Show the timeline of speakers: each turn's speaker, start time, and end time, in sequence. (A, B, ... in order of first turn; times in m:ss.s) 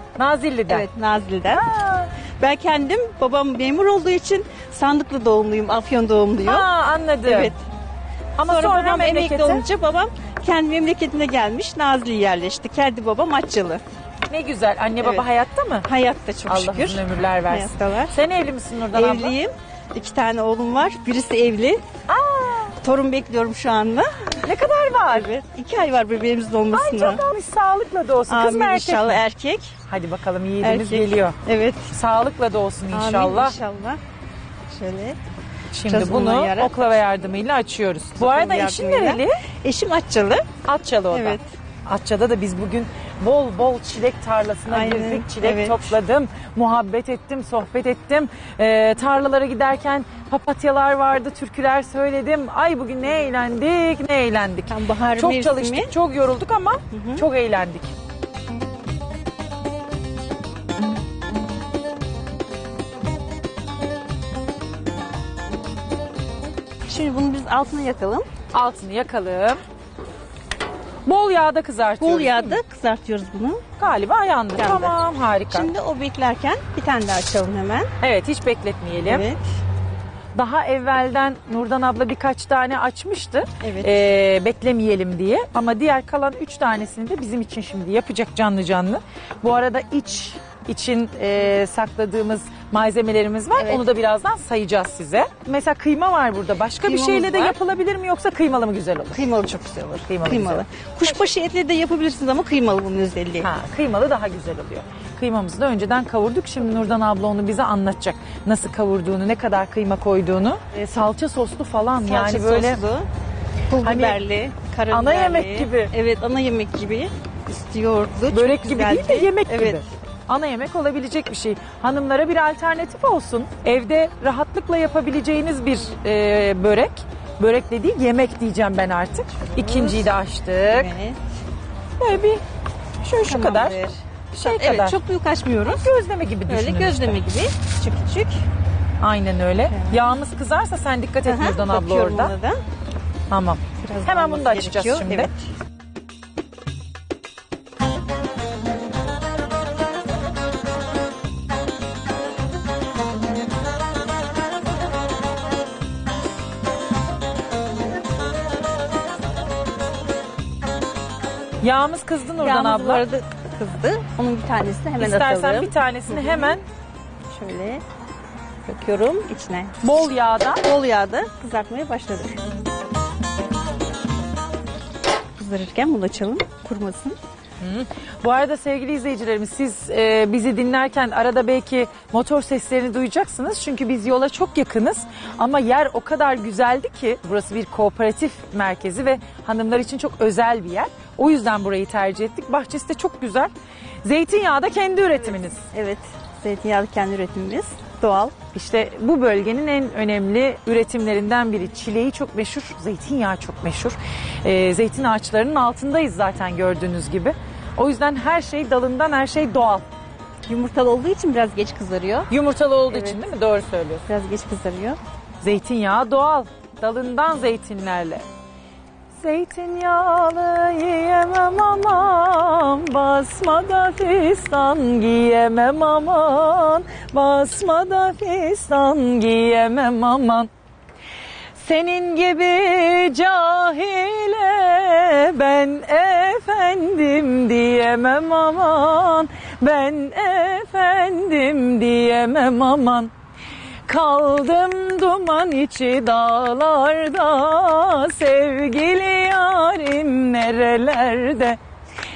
0:00.2-0:00.9 A
0:00.7-0:01.7 B
0:01.6-0:02.1 A
0:02.4-0:06.7 B
0:06.4-0:07.5 A
0:07.2-0:07.6 B
0:08.4-0:09.6 A
0:08.4-0:13.8 B
0:14.3-0:15.9 A
0:15.0-0:15.3 B
0:15.8-0:18.2 B
0:16.5-0:19.4 A
0:18.9-0:21.8 B
0:22.1-0:22.8 A
0:22.8-0:24.5 B
0:24.4-0:25.3 A
0:25.1-0:27.2 B
0:26.7-0:29.2 A
0:28.3-0:29.8 B
0:29.9-0:31.4 A
0:30.6-0:31.9 B
0:31.9-0:33.6 A
0:32.9-0:34.0 B
0:34.7-0:35.2 B
0:35.7-0:39.4 A
0:35.8-0:36.8 B
0:38.2-0:40.5 B
0:40.6-0:57.9 A
0:41.1-0:41.5 B
0:44.7-0:45.9 B
0:54.7-0:55.9 B
0:56.9-0:57.2 B
1:06.9-1:08.3 B
1:08.5-1:09.6 A
1:11.0-1:12.6 A
1:12.0-1:13.6 B
1:13.8-1:15.7 A
1:14.6-1:17.9 B
1:18.0-1:19.2 A
1:19.1-1:19.4 B
1:20.4-1:39.3 A
1:23.6-1:24.1 B
1:33.6-1:33.9 B
1:36.8-1:37.6 B
1:39.2-1:43.5 B
1:40.1-1:40.6 A
1:43.4-1:52.8 A
1:52.0-1:53.1 B
1:53.7-1:59.8 B
1:53.8-1:54.2 A
1:54.9-1:55.9 A
1:58.3-2:10.9 A
2:09.4-2:10.1 B
2:10.6-2:11.2 B
2:12.0-2:12.4 A
2:13.0-2:13.8 A
2:13.2-2:15.9 B
2:14.3-2:15.0 A
2:15.6-2:17.2 A
2:16.5-2:18.4 B
2:19.0-2:22.3 A
2:19.7-2:20.1 B
2:21.2-2:22.6 B
2:23.3-2:25.3 A
2:23.8-2:25.4 B
2:41.6-2:43.0 A
2:42.4-2:46.6 B
2:45.0-2:46.6 A
2:47.3-2:47.8 B
2:48.7-2:49.8 B
2:49.8-2:50.6 A
2:50.6-2:52.4 B
2:55.4-2:57.2 B
2:57.6-3:13.5 A
3:14.0-3:15.7 A
3:15.7-3:18.4 B
3:18.5-3:29.9 A
3:30.5-3:32.3 B
3:32.3-3:34.0 A
3:32.9-3:33.2 B
3:34.1-3:35.0 B
3:35.4-3:38.2 A
3:39.2-3:50.5 A
3:51.6-4:03.1 A
4:03.9-4:11.6 A